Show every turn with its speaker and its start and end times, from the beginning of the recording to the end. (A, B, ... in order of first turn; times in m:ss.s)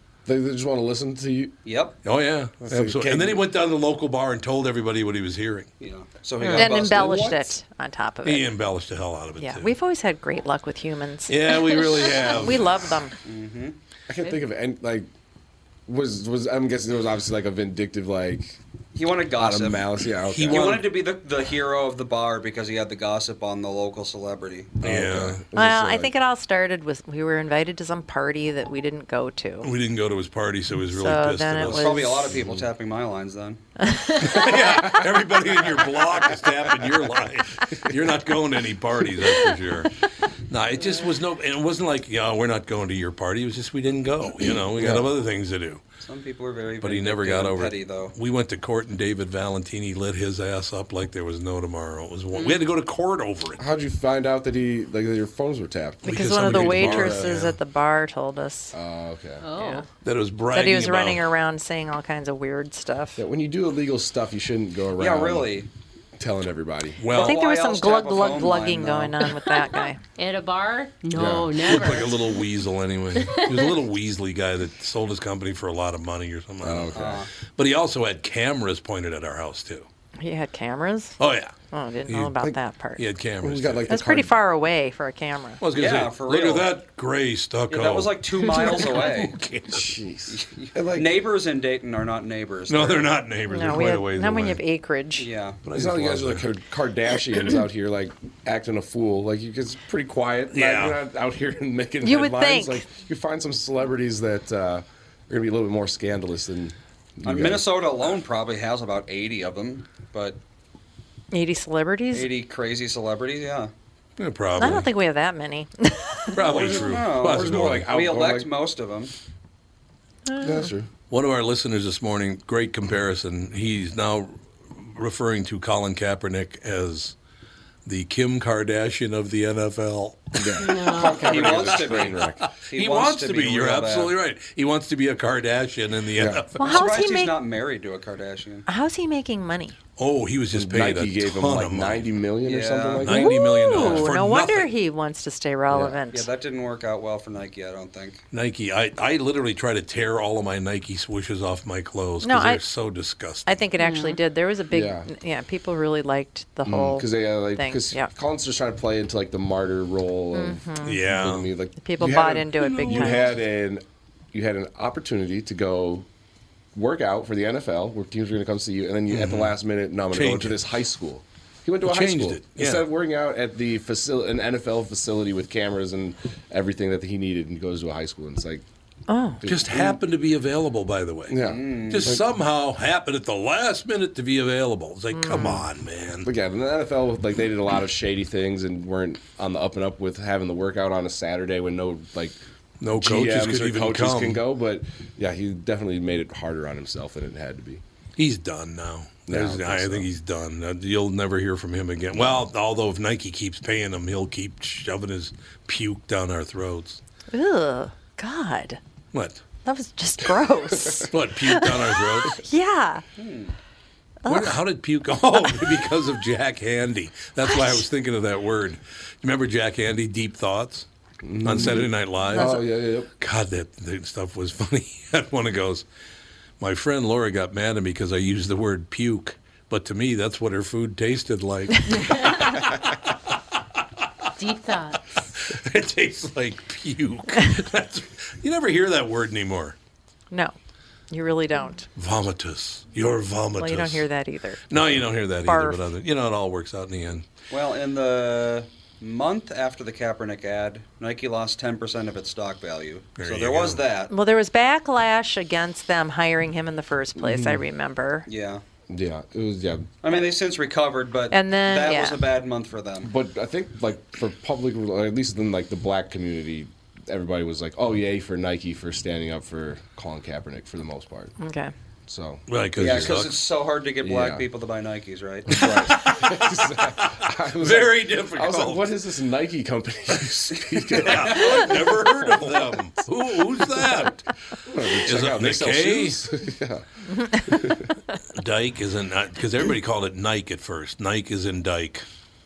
0:00.2-0:01.6 A
0:01.6-0:02.0 B
0:02.0-0:05.7 C
0:02.6-0:03.4 A
0:05.8-0:07.5 B
0:06.5-0:08.5 D
0:08.2-0:09.7 C
0:09.4-0:13.1 D
0:11.3-0:12.7 C
0:13.2-0:13.8 B
0:14.1-0:15.1 A
0:15.9-0:18.6 A
0:18.9-0:19.8 B
0:19.3-0:20.8 A
0:20.3-0:20.8 C
0:20.5-0:24.8 B
0:24.8-0:25.4 C
0:24.8-0:26.1 A
0:25.5-0:29.7 D
0:29.6-0:32.0 C
0:30.9-0:32.3 D
0:31.7-0:33.6 B
0:32.3-0:32.6 A
0:33.8-0:34.2 D
0:34.2-0:39.9 C
0:40.5-0:45.8 C
0:44.8-0:45.1 A
0:46.0-0:48.1 B
0:46.8-0:53.6 C
0:53.6-0:57.4 A
0:56.0-0:57.6 C
0:56.0-0:58.7 D
0:58.7-0:59.4 A
0:59.4-0:59.9 E
1:00.0-1:01.2 C
1:00.5-1:03.2 D
1:03.2-1:05.5 A
1:05.0-1:05.7 B
1:06.2-1:07.0 A
1:07.0-1:07.4 C
1:07.1-1:09.2 B
1:07.1-1:10.0 D
1:10.2-1:12.3 E
1:11.1-1:11.6 A
1:11.6-1:19.9 C
1:13.2-1:13.7 E
1:16.6-1:17.2 A
1:16.9-1:17.3 B
1:20.2-1:21.2 D
1:21.2-1:21.5 C
1:21.7-1:23.0 D
1:22.1-1:22.3 C
1:23.0-1:23.9 C
1:23.4-1:24.4 A
1:23.9-1:25.6 D
1:25.6-1:30.0 C
1:25.7-1:26.7 B
1:27.7-1:29.4 B
1:29.7-1:31.1 A
1:30.3-1:33.1 B
1:32.7-1:34.6 C
1:33.5-1:35.3 D
1:35.2-1:35.6 B
1:35.6-1:36.5 C
1:35.7-1:47.7 A
1:40.5-1:41.0 C
1:42.0-1:42.8 D
1:47.2-1:50.4 B
1:51.3-1:52.3 D
1:52.1-1:53.7 B
1:54.2-1:54.9 C
1:54.6-1:56.3 D
1:56.3-1:57.9 C
1:56.4-1:58.5 A
1:56.6-1:59.1 B
2:00.3-2:00.7 D
2:00.4-2:00.9 A
2:01.1-2:07.1 C
2:07.8-2:10.7 C
2:10.4-2:12.5 A
2:10.6-2:11.4 E
2:11.2-2:14.1 B
2:11.2-2:16.8 C
2:16.2-2:16.5 A
2:16.6-2:17.3 D
2:16.6-2:18.7 B
2:18.7-2:19.8 D
2:20.0-2:22.0 C
2:20.5-2:24.1 A
2:22.4-2:23.1 B
2:23.0-2:24.7 C
2:23.1-2:26.3 D
2:25.7-2:26.0 A
2:26.1-2:28.2 B
2:28.3-2:33.6 C
2:32.2-2:32.6 D
2:33.4-2:38.1 D
2:33.8-2:34.2 E
2:34.7-2:35.1 A
2:36.6-2:46.1 A
2:40.3-2:41.0 D
2:40.8-2:41.5 C
2:41.8-2:43.3 D
2:42.6-2:43.4 C
2:46.7-2:58.6 A
2:49.1-2:49.5 C
2:50.1-2:50.6 C
2:51.8-2:52.8 C
2:59.1-2:59.4 D
2:59.4-3:00.0 A
2:59.4-3:06.3 C
3:01.3-3:02.2 A
3:01.4-3:02.1 B
3:05.1-3:05.6 D
3:06.2-3:12.4 A
3:12.8-3:14.4 C
3:12.9-3:17.8 A
3:18.2-3:27.0 C
3:19.3-3:20.1 A
3:27.3-3:28.8 D
3:29.1-3:29.4 C
3:29.6-3:33.0 D
3:31.1-3:32.4 C
3:33.2-3:33.5 B
3:34.2-3:34.6 D
3:34.2-3:40.9 C
3:37.4-3:37.8 D
3:41.2-3:43.1 A
3:41.4-3:42.6 C
3:42.3-3:42.6 D
3:43.2-3:45.8 C
3:46.6-3:53.2 C
3:54.4-3:55.1 E
3:55.4-3:59.8 C
4:01.1-4:01.9 D
4:01.9-4:04.0 C
4:03.6-4:04.7 D
4:04.7-4:07.2 C
4:05.4-4:05.8 D
4:07.5-4:14.1 B
4:13.2-4:13.8 C
4:14.1-4:18.3 D
4:17.2-4:17.6 A
4:18.3-4:18.6 B
4:18.9-4:20.0 A
4:20.0-4:23.1 B
4:21.3-4:22.2 D
4:23.0-4:31.3 A
4:31.4-4:31.7 D
4:32.1-4:33.3 A
4:32.5-4:33.3 C
4:32.8-4:35.5 B
4:34.0-4:34.4 A
4:35.4-4:42.6 A
4:35.6-4:36.5 C
4:37.0-4:38.8 C
4:40.9-4:44.3 C
4:44.7-4:46.8 A
4:45.0-4:46.2 C
4:47.3-4:47.6 D
4:47.4-4:47.9 A
4:48.3-4:52.0 C